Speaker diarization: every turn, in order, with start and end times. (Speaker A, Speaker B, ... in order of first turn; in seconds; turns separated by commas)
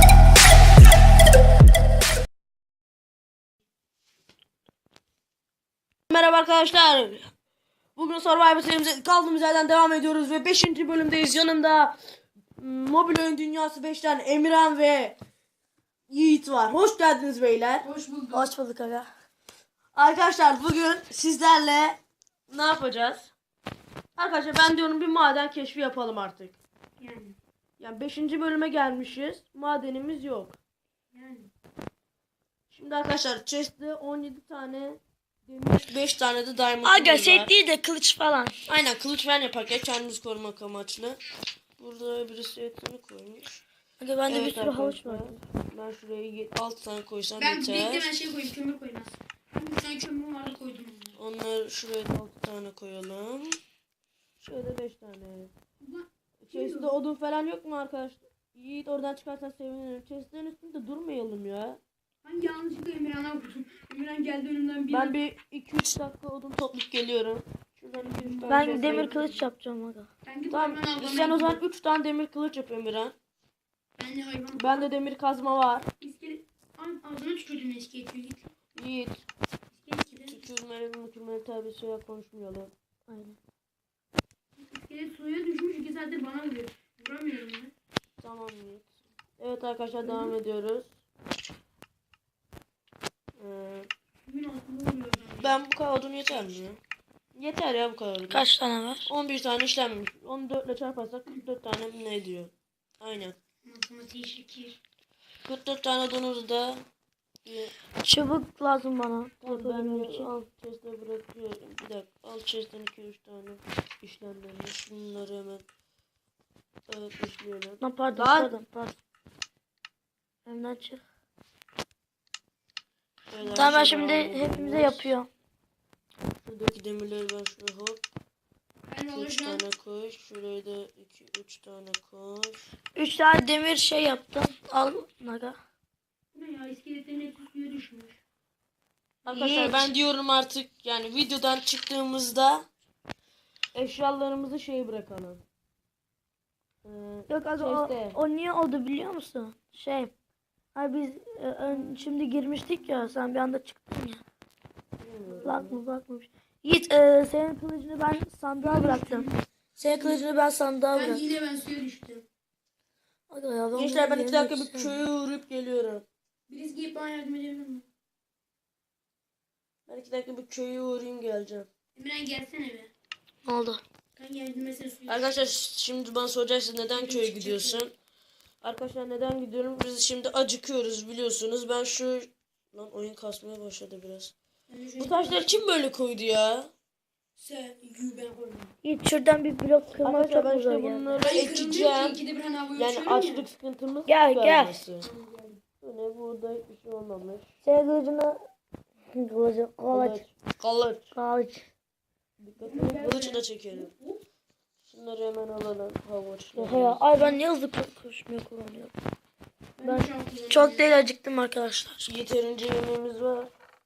Speaker A: 6.1-7.3, Speaker A: 8.0-12.0, Speaker A: 12.6-15.2, Speaker A: 16.1-17.9, Speaker B: 17.8-18.5, Speaker C: 18.3-19.1, Speaker A: 19.9-23.3, Speaker A: 24.2-26.6, Speaker B: 27.0-27.4, Speaker A: 27.8-30.6, Speaker B: 31.1-31.5, Speaker A: 32.7-37.5, Speaker C: 36.8-38.7, Speaker A: 38.7-41.2, Speaker A: 41.8-43.6, Speaker C: 44.0-45.4, Speaker A: 44.3-48.1, Speaker B: 47.4-51.2, Speaker A: 51.1-53.6, Speaker A: 54.4-55.5, Speaker B: 55.8-57.0, Speaker A: 56.4-61.8, Speaker B: 62.2-65.2, Speaker A: 64.9-69.2, Speaker B: 68.0-69.5, Speaker C: 68.5-70.1, Speaker B: 70.2-71.6, Speaker A: 70.5-73.2, Speaker B: 74.0-74.9, Speaker A: 74.5-75.9, Speaker B: 76.0-78.5, Speaker A: 78.7-79.2, Speaker B: 79.7-80.4, Speaker A: 80.2-82.7, Speaker C: 83.1-83.4, Speaker B: 84.6-87.7, Speaker A: 88.2-91.0, Speaker B: 90.0-90.3, Speaker A: 93.4-93.9, Speaker B: 94.2-95.6, Speaker A: 95.4-96.8, Speaker A: 97.3-98.5, Speaker C: 98.3-99.1, Speaker A: 99.0-103.4, Speaker B: 103.6-104.8, Speaker A: 105.4-106.8, Speaker A: 107.4-107.7, Speaker C: 108.0-110.5, Speaker A: 109.4-115.7, Speaker A: 116.9-118.5, Speaker C: 117.8-119.0, Speaker C: 120.4-121.0, Speaker A: 123.3-125.1, Speaker B: 123.4-123.7, Speaker C: 123.5-125.3, Speaker A: 126.4-128.0, Speaker B: 128.9-129.7, Speaker A: 129.1-132.7, Speaker C: 132.9-135.6, Speaker B: 136.3-138.2, Speaker C: 139.2-139.9, Speaker A: 139.2-142.7, Speaker A: 143.7-145.4, Speaker A: 146.8-148.2, Speaker C: 147.3-150.1, Speaker C: 150.8-154.2, Speaker A: 155.0-155.8, Speaker B: 155.2-155.6, Speaker C: 155.4-161.2, Speaker B: 158.6-160.2, Speaker B: 160.9-162.2, Speaker C: 163.3-165.0, Speaker A: 163.7-166.1, Speaker B: 166.5-167.9, Speaker A: 169.9-171.7, Speaker B: 171.9-172.9, Speaker C: 173.4-173.8, Speaker B: 174.2-175.5, Speaker A: 175.1-177.9, Speaker B: 176.9-177.8, Speaker A: 178.6-184.3, Speaker B: 184.7-185.6, Speaker A: 185.0-186.7, Speaker B: 187.3-188.8, Speaker C: 188.8-191.3, Speaker A: 190.0-192.2, Speaker B: 191.2-193.4, Speaker A: 192.8-195.1, Speaker C: 194.1-194.8, Speaker B: 195.0-195.6, Speaker A: 195.8-197.5, Speaker C: 197.6-198.4, Speaker C: 199.2-200.2, Speaker A: 199.9-201.1, Speaker C: 201.1-201.7, Speaker A: 202.4-203.9, Speaker B: 202.6-204.2, Speaker A: 204.8-207.0, Speaker C: 206.5-208.9, Speaker B: 207.1-207.4, Speaker B: 209.8-210.9, Speaker C: 209.8-212.1, Speaker A: 212.0-213.5